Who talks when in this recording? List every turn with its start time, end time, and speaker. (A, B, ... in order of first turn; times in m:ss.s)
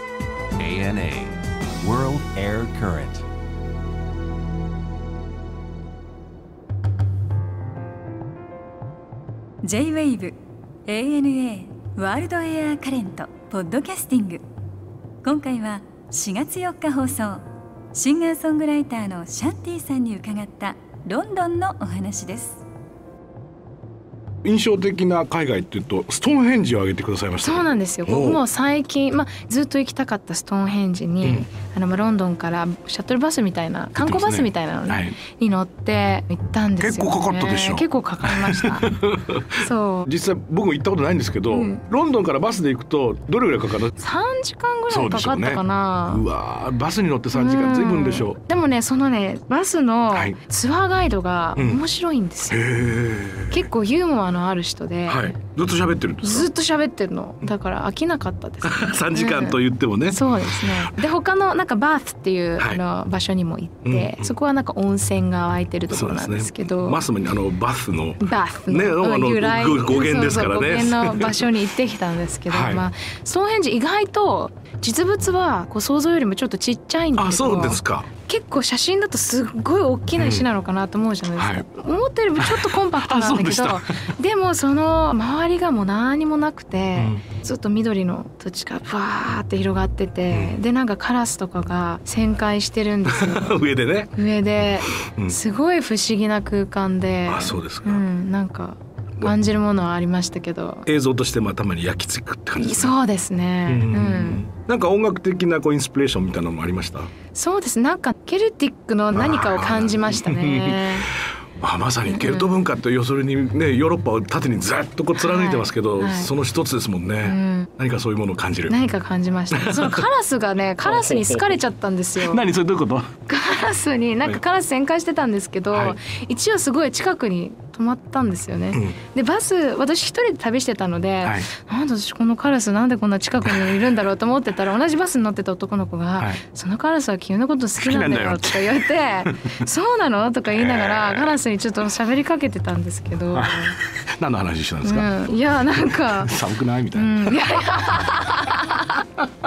0:00.6-0:03.3 A
0:09.6-0:14.4 B
0:15.2-0:22.6 B
0:24.4-0:28.4 C
0:27.4-0:38.9 D
0:34.0-0:35.2 C
0:36.8-0:44.0 C
0:39.6-0:40.1 D
0:41.5-0:41.8 D
0:44.0-0:46.2 D
0:44.9-0:48.4 C
0:47.3-0:52.6 D
0:50.1-0:50.4 C
0:51.6-0:51.8 C
0:52.5-0:53.7 C
0:53.5-0:55.4 D
0:55.1-0:56.5 C
0:56.2-1:07.0 D
0:58.6-1:00.9 C
1:03.8-1:04.3 C
1:05.9-1:11.5 C
1:08.2-1:33.6 D
1:12.5-1:12.8 C
1:17.1-1:18.1 C
1:20.2-1:20.4 C
1:21.4-1:21.7 C
1:22.4-1:24.1 C
1:26.9-1:27.2 C
1:30.3-1:30.6 C
1:33.0-1:35.4 C
1:34.1-1:40.8 D
1:37.3-1:38.0 C
1:40.8-1:43.0 C
1:42.6-1:44.4 D
1:43.7-1:47.1 C
1:47.3-1:51.1 D
1:49.1-1:58.8 C
1:52.0-1:52.5 D
1:55.2-1:56.3 D
1:57.2-1:57.7 D
1:58.7-2:02.4 D
1:59.5-2:00.0 C
2:00.8-2:01.6 C
2:02.2-2:03.1 C
2:03.3-2:23.8 D
2:05.7-2:06.0 C
2:11.2-2:11.5 C
2:13.4-2:13.7 C
2:17.8-2:19.5 C
2:20.5-2:21.4 C
2:23.3-2:28.8 C
2:24.8-2:26.4 D
2:26.9-2:29.0 D